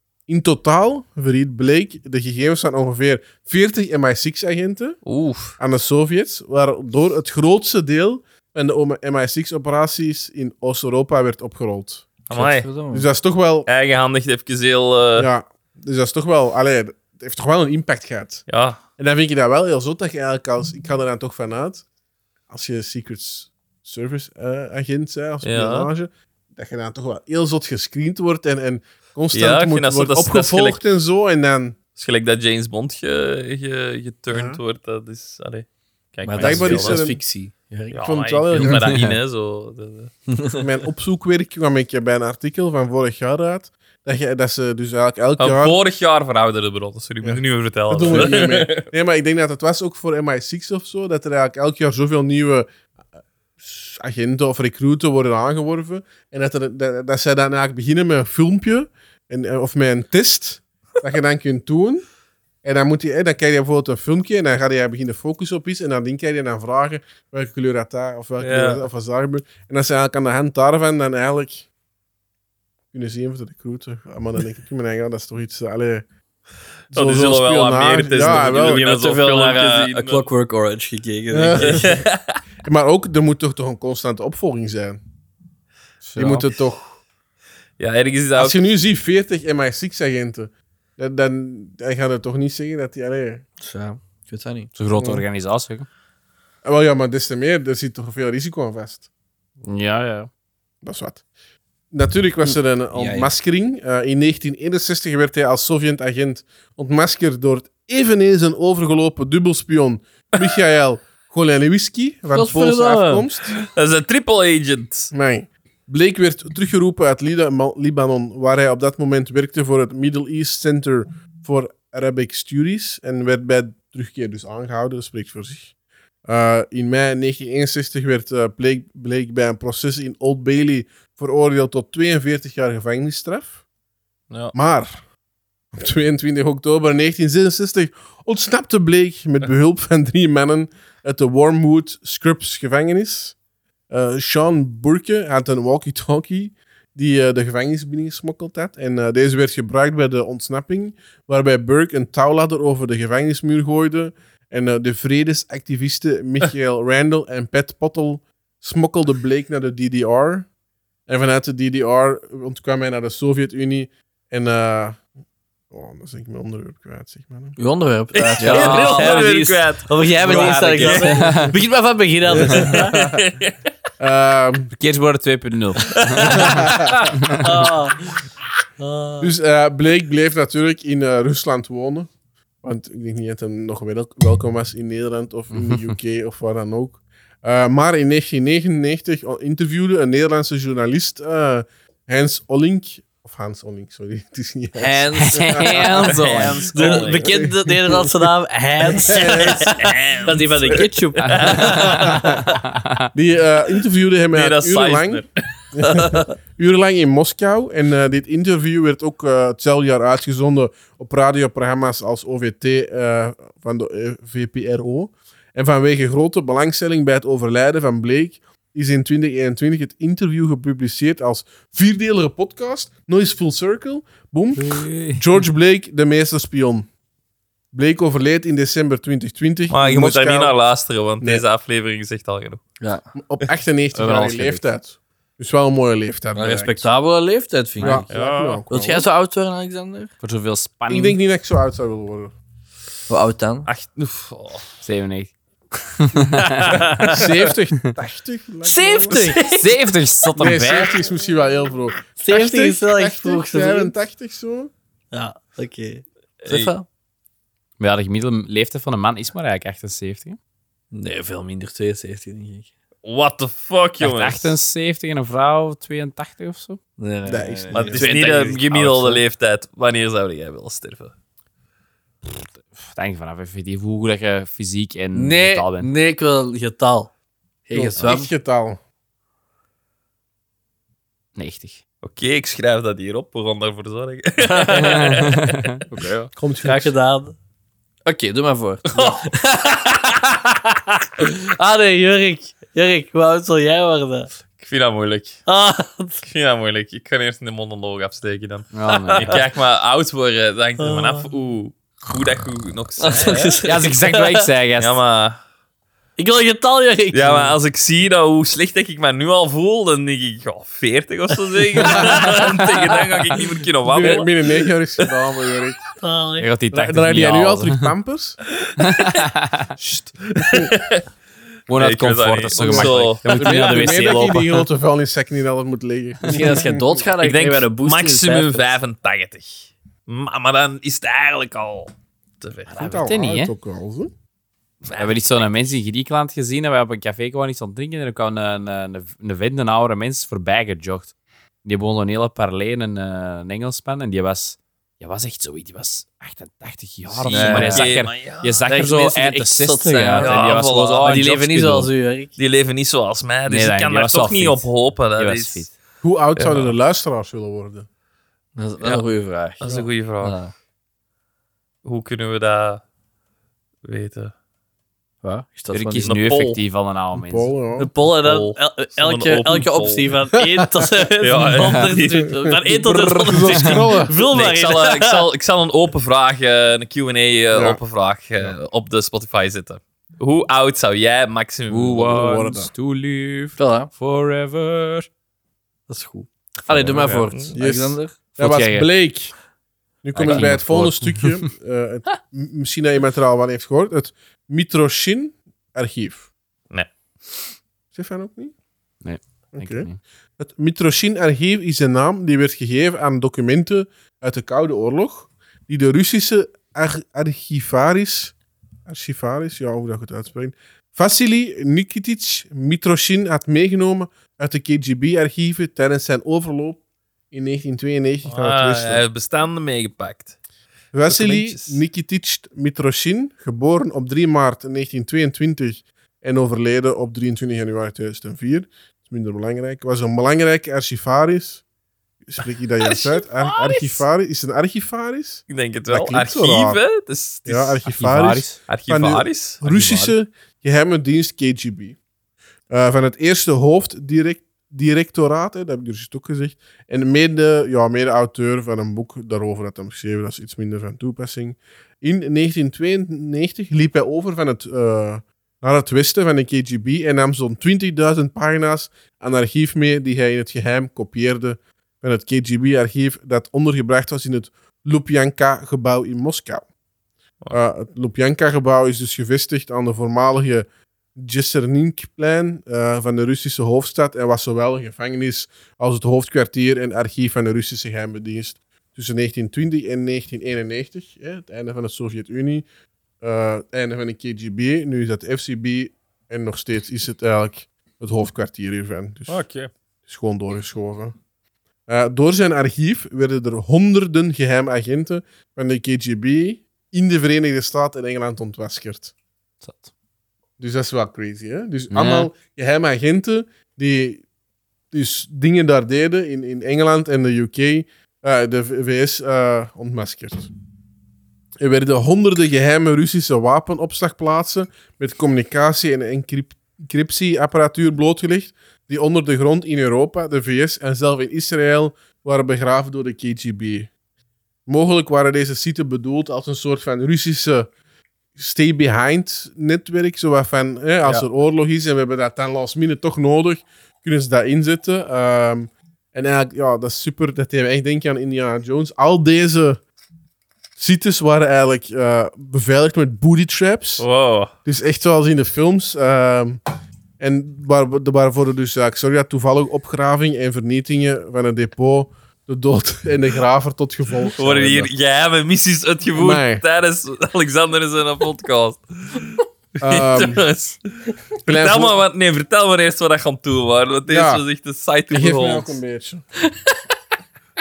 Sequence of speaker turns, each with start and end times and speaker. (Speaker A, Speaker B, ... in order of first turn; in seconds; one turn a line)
Speaker A: 0.3-5.0
Speaker B: 5.0-5.5
Speaker A: 5.6-12.1
Speaker B: 12.3-12.7
Speaker C: 12.3-13.1
Speaker A: 12.9-13.7
Speaker B: 13.7-15.3
Speaker A: 15.2-18.4
Speaker B: 18.5-18.8
Speaker A: 19.0-21.9
Speaker A: 22.5-31.8
Speaker B: 25.4-25.9
Speaker B: 29.3-30.8
Speaker B: 32.0-37.0
Speaker A: 34.3-34.6
Speaker C: 36.2-38.0
Speaker A: 36.4-37.2
Speaker B: 37.9-40.1
Speaker A: 38.0-38.9
Speaker D: 38.8-39.1
Speaker C: 40.3-40.6
Speaker A: 40.5-45.8
Speaker B: 45.4-48.9
Speaker A: 47.2-52.7
Speaker A: 53.6-62.0
Speaker A: 62.6-71.7
Speaker B: 68.4-68.8
Speaker A: 72.9-76.0
Speaker A: 76.9-78.9
Speaker B: 76.9-80.3
Speaker C: 78.2-82.0
Speaker A: 81.3-82.0
Speaker B: 81.6-82.4
Speaker A: 82.6-85.0
Speaker D: 86.0-86.5
Speaker A: 86.2-86.8
Speaker B: 87.8-88.7
Speaker A: 88.3-93.4
Speaker C: 93.6-94.7
Speaker D: 94.8-95.9
Speaker A: 95.0-95.2
Speaker A: 96.6-99.0
Speaker D: 99.6-100.3
Speaker A: 100.8-101.2
Speaker A: 101.9-113.6
Speaker C: 102.9-103.3
Speaker C: 112.3-113.3
Speaker B: 113.6-115.1
Speaker A: 115.1-125.7
Speaker A: 126.3-133.6
Speaker A: 134.5-135.0
Speaker A: 135.7-143.3
Speaker A: 143.9-160.5
Speaker A: 161.1-165.0
Speaker A: 165.7-167.6
Speaker C: 167.6-172.9
Speaker B: 168.1-171.5
Speaker D: 168.4-169.3
Speaker D: 170.2-171.5
Speaker A: 172.3-173.2
Speaker B: 172.5-173.5
Speaker A: 174.0-174.7
Speaker D: 174.7-177.6
Speaker B: 175.9-176.7
Speaker A: 176.3-177.1
Speaker C: 177.4-178.1
Speaker C: 178.8-179.3
Speaker A: 179.2-182.1
Speaker A: 182.6-195.9
Speaker D: 185.5-185.9
Speaker C: 194.8-202.4
Speaker D: 195.2-196.6
Speaker B: 196.0-197.3
Speaker A: 196.7-198.3
Speaker A: 198.8-199.8
Speaker B: 199.2-202.1
Speaker D: 201.2-203.1
Speaker A: 201.5-202.5
Speaker A: 203.1-226.9
Speaker B: 204.3-206.3
Speaker D: 224.6-225.2
Speaker A: 227.7-230.6
Speaker B: 229.7-232.6
Speaker A: 233.1-236.9
Speaker D: 233.9-234.6
Speaker C: 236.3-238.1
Speaker D: 237.8-238.1
Speaker A: 237.8-239.1
Speaker B: 238.1-238.6
Speaker C: 238.7-240.1
Speaker D: 240.2-241.2
Speaker A: 240.9-242.3
Speaker C: 243.1-243.7
Speaker B: 243.7-244.7
Speaker D: 244.8-245.3
Speaker D: 246.0-246.8
Speaker C: 246.6-247.3
Speaker B: 246.7-247.2
Speaker A: 247.1-249.3
Speaker C: 248.6-249.7
Speaker B: 249.1-249.3
Speaker D: 249.5-251.0
Speaker A: 250.4-254.7
Speaker C: 252.2-253.9
Speaker C: 255.1-256.9
Speaker B: 256.4-256.7
Speaker D: 257.8-260.4
Speaker C: 260.9-262.7
Speaker B: 263.0-264.6
Speaker D: 264.0-266.8
Speaker C: 267.0-269.2
Speaker A: 267.3-268.1
Speaker B: 267.7-271.1
Speaker D: 272.2-275.9
Speaker C: 275.1-277.1
Speaker C: 277.7-278.3
Speaker A: 277.7-278.8
Speaker D: 281.4-281.8
Speaker B: 282.0-285.7
Speaker C: 284.5-285.3
Speaker D: 285.1-286.3
Speaker A: 286.4-286.9
Speaker C: 286.6-287.4
Speaker C: 288.1-294.3
Speaker B: 288.9-289.3
Speaker B: 294.6-295.4
Speaker C: 295.5-296.2
Speaker B: 296.2-303.6
Speaker D: 298.7-299.4
Speaker C: 298.9-299.4
Speaker C: 300.8-301.2
Speaker C: 303.0-304.4
Speaker D: 303.6-305.0
Speaker B: 304.8-305.4
Speaker C: 306.2-307.6
Speaker B: 307.1-315.1
Speaker C: 311.8-312.6
Speaker A: 311.9-312.2
Speaker A: 313.8-315.8
Speaker C: 316.0-316.5
Speaker D: 316.4-317.9
Speaker A: 316.7-318.4
Speaker B: 318.6-319.2
Speaker D: 318.8-319.7
Speaker B: 320.2-321.0
Speaker D: 321.7-324.7
Speaker B: 321.7-323.2
Speaker A: 322.6-327.1
Speaker C: 323.4-324.2
Speaker C: 326.3-328.7
Speaker D: 326.3-326.5
Speaker B: 327.2-332.8
Speaker A: 332.7-334.1
Speaker D: 332.8-333.5
Speaker B: 334.8-335.6
Speaker D: 334.9-341.1
Speaker D: 341.6-351.9
Speaker C: 347.3-347.9
Speaker B: 347.3-348.6
Speaker C: 348.7-352.3
Speaker B: 350.2-351.2
Speaker B: 352.4-355.7
Speaker D: 353.5-355.7
Speaker A: 356.0-357.9
Speaker B: 356.4-356.8
Speaker C: 358.6-359.6
Speaker B: 358.8-360.4
Speaker C: 360.2-360.5
Speaker B: 361.9-362.8
Speaker B: 363.8-364.3
Speaker C: 365.2-366.1
Speaker D: 365.7-367.5
Speaker B: 366.0-366.6
Speaker A: 367.1-367.9
Speaker C: 367.8-375.2
Speaker B: 368.2-370.1
Speaker B: 371.2-373.4
Speaker A: 373.2-374.1
Speaker B: 374.2-382.3
Speaker A: 377.5-377.8
Speaker D: 381.7-385.1
Speaker A: 382.1-382.7
Speaker C: 383.6-383.9
Speaker C: 385.9-388.1
Speaker D: 386.7-387.3
Speaker A: 387.5-389.3
Speaker D: 388.4-388.9
Speaker A: 390.0-396.3
Speaker B: 390.2-390.4
Speaker D: 390.2-391.4
Speaker B: 396.7-397.4
Speaker A: 397.9-398.5
Speaker D: 399.0-400.0
Speaker A: 399.5-408.3
Speaker A: 408.9-419.0
Speaker B: 418.3-420.4
Speaker A: 420.9-431.6
Speaker B: 421.1-421.8
Speaker A: 432.2-436.8
Speaker B: 432.8-434.1
Speaker B: 435.5-437.8
Speaker A: 437.4-442.0
Speaker D: 437.9-438.6
Speaker B: 438.7-439.6
Speaker D: 439.7-440.1
Speaker A: 442.7-466.7
Speaker A: 467.5-482.6
Speaker A: 483.2-489.4
Speaker B: 489.3-489.7
Speaker A: 490.1-491.1
Speaker A: 491.9-499.1
Speaker D: 499.6-499.9
Speaker A: 500.6-504.2
Speaker D: 501.9-502.3
Speaker A: 504.9-510.5
Speaker A: 511.6-523.9
Speaker A: 524.7-527.7
Speaker A: 528.4-539.8
Speaker A: 540.8-544.0
Speaker B: 544.0-544.5
Speaker A: 544.6-546.6
Speaker A: 547.2-554.9
Speaker B: 554.3-560.8
Speaker A: 556.1-556.6
Speaker A: 559.8-560.5
Speaker B: 561.4-565.8
Speaker A: 561.5-562.0
Speaker A: 564.1-564.4
Speaker A: 565.1-566.2